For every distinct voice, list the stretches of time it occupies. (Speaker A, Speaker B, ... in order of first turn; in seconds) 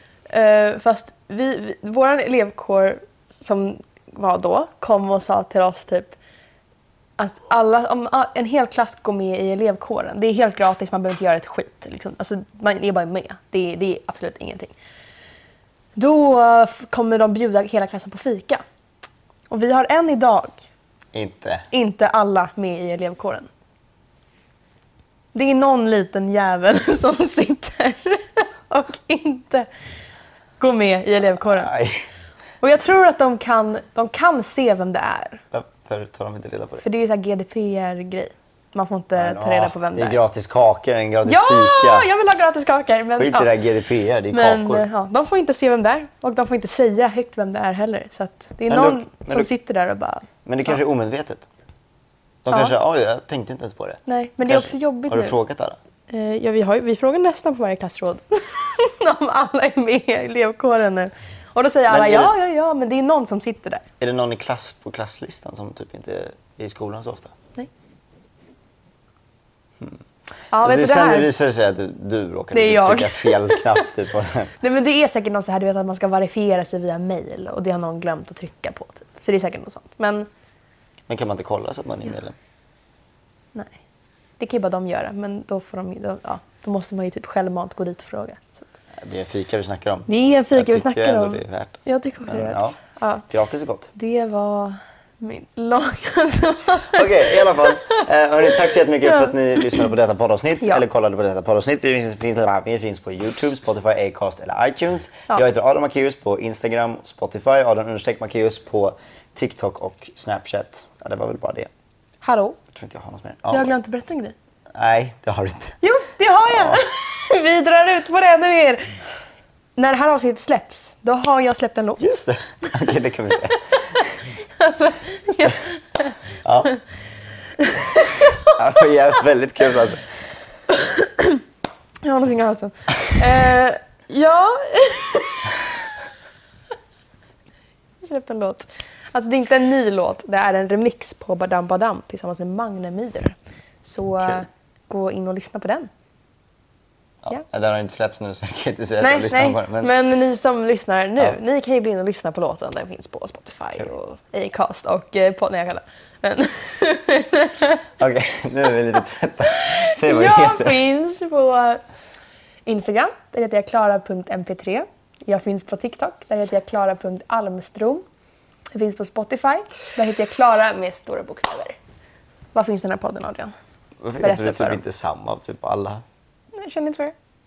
Speaker A: 0.3-6.2, 7.2-14.7, 16.0-18.6, 19.5-20.7, 21.7-23.5, 25.3-29.7, 30.6-31.7, 32.6-35.4, 36.8-40.2, 41.2-43.5, 44.3-50.3, 54.1-55.4, 56.1-63.8, 70.5-71.3, 72.5-73.9, 74.6-80.3, 83.5-83.8, 84.4-88.7, 90.1-93.3, 94.0-98.0, 99.1-99.6, 112.2-112.6, 113.5-114.3, 115.8-118.9, 119.8-122.2, 124.6-126.1, 127.6-128.6, 130.7-131.4, 132.0-135.5, 138.0-145.9, 149.0-157.9, 159.6-161.8, 162.7-168.1, 168.7-171.8, 172.6-173.5, 174.2-174.8, 176.5-177.1
Speaker B: 21.1-21.7, 31.4-32.1, 35.5-36.8, 39.2-42.1, 43.2-44.9, 48.7-49.5, 50.5-51.5, 52.4-55.8, 61.9-62.3, 64.0-67.3, 70.6-74.5, 81.1-82.4, 89.0-93.9, 96.9-111.7, 112.7-113.7, 114.7-115.8, 116.5-116.8, 122.0-124.1, 125.3-125.6, 126.4-126.8, 128.5-130.1, 147.2-149.9, 158.0-160.8, 174.0-176.0